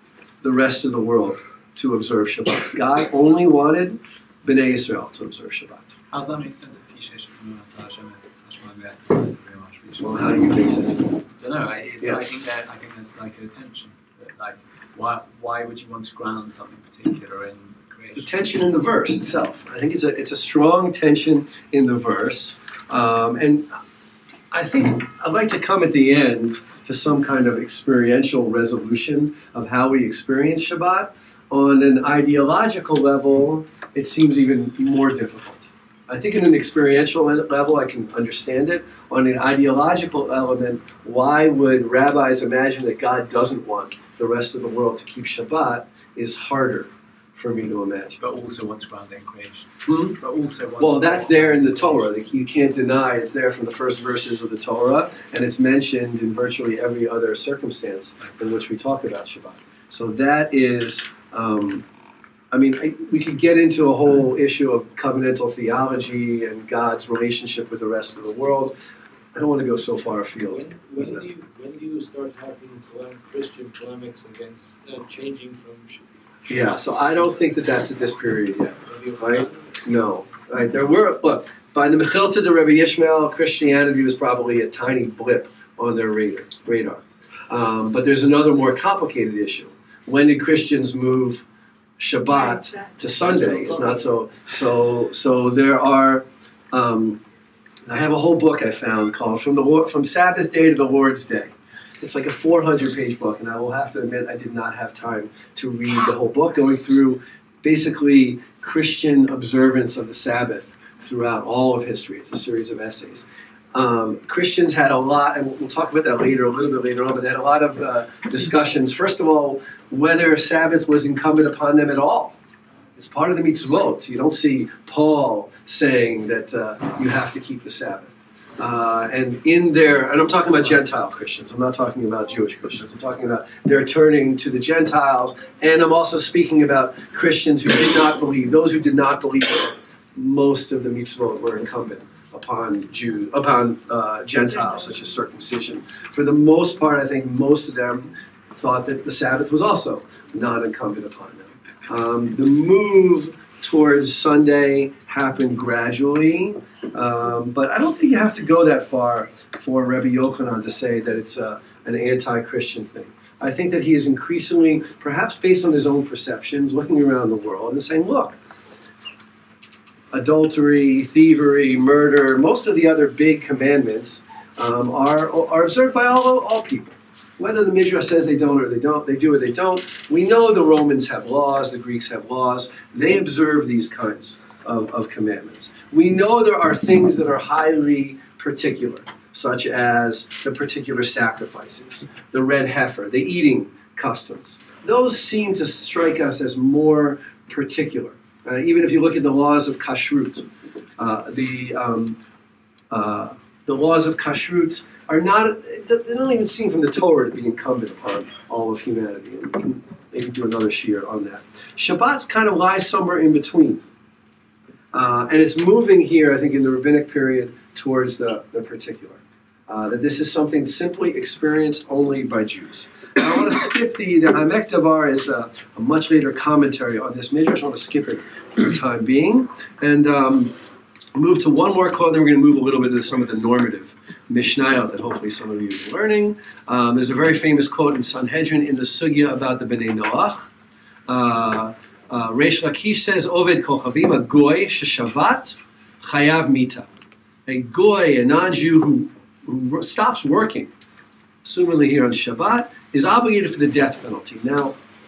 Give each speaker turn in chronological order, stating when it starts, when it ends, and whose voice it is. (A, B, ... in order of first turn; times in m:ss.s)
0:00.4-0:05.9 A
0:06.1-0:10.6 B
0:10.0-0:11.2 A
0:11.4-0:18.3 B
0:12.0-0:12.5 A
0:18.1-0:23.8 A
0:24.5-0:48.2 A
0:48.2-0:52.3 B
0:49.8-0:50.2 A
0:50.8-1:01.8 A
1:02.5-1:08.7 A
1:09.3-1:11.2 A
1:10.5-1:17.5 C
1:16.5-1:31.4 A
1:18.8-1:19.7 C
1:32.0-1:37.2 A
1:33.0-1:34.1 C
1:37.8-2:02.3 A
2:03.0-2:48.4 A
2:50.1-3:20.4 A
3:21.0-3:22.2 A
3:22.9-3:33.8 A
3:34.9-3:50.5 A
3:51.2-4:00.5 A
4:01.1-4:06.9 A
4:07.4-4:10.7 A
4:11.4-4:14.7 A